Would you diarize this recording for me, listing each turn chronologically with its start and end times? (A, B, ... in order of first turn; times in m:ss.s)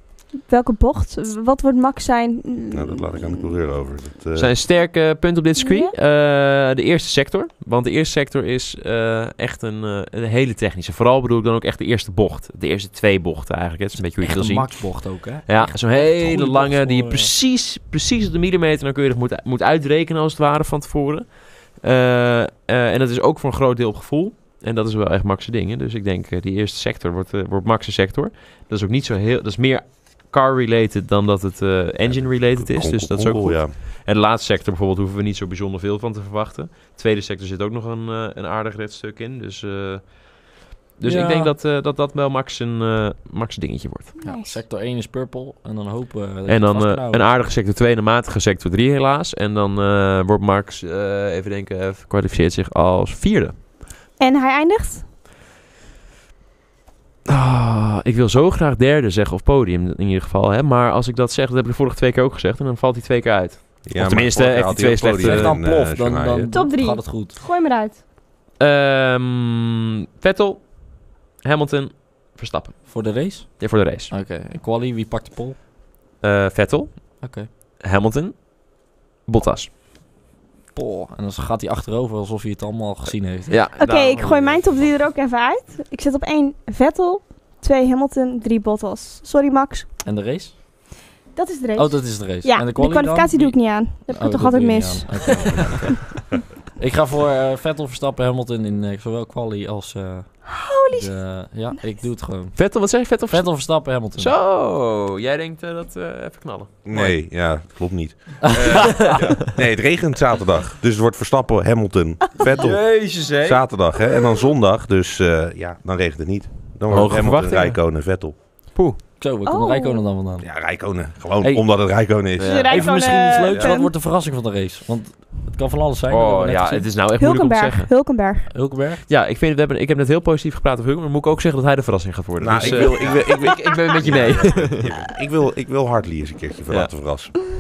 0:00.5-0:03.4 A
0:02.7-0:04.5 B
0:04.4-0:40.4 C
0:05.6-0:05.9 A
0:14.2-0:17.3 D
0:32.0-0:33.8 B
0:41.0-0:44.1 C
0:41.0-0:41.5 D
0:44.2-0:44.6 A
0:44.2-0:47.3 D
0:46.5-0:53.6 C
0:54.2-0:55.0 A
0:57.3-1:05.5 C
1:03.9-1:06.5 B
1:05.2-1:07.4 D
1:06.5-1:08.0 A
1:08.6-1:13.0 C
1:12.9-1:15.6 D
1:13.6-1:14.1 C
1:16.2-1:19.7 C
1:17.2-1:17.5 D
1:20.8-1:23.7 D
1:23.5-1:24.7 C
1:23.8-1:29.9 A
1:30.0-1:30.6 D
1:31.3-1:35.9 A
1:31.8-1:44.4 D
1:40.5-1:41.2 A
1:42.6-1:47.1 C
1:46.8-1:58.4 B
1:48.4-1:49.1 D
1:48.5-1:49.4 C
1:52.5-1:53.7 C
1:56.9-1:58.0 C
1:59.2-2:02.1 D
1:59.5-2:00.1 A
2:00.4-2:02.7 B
2:02.4-2:02.9 C
2:02.4-2:03.9 A
2:02.7-2:06.9 D
2:03.4-2:03.8 B
2:06.1-2:07.9 C
2:07.2-2:08.5 A
2:08.5-2:09.1 D
2:09.1-2:15.1 C
2:12.4-2:17.4 B
2:13.1-2:13.4 A
2:14.0-2:14.5 A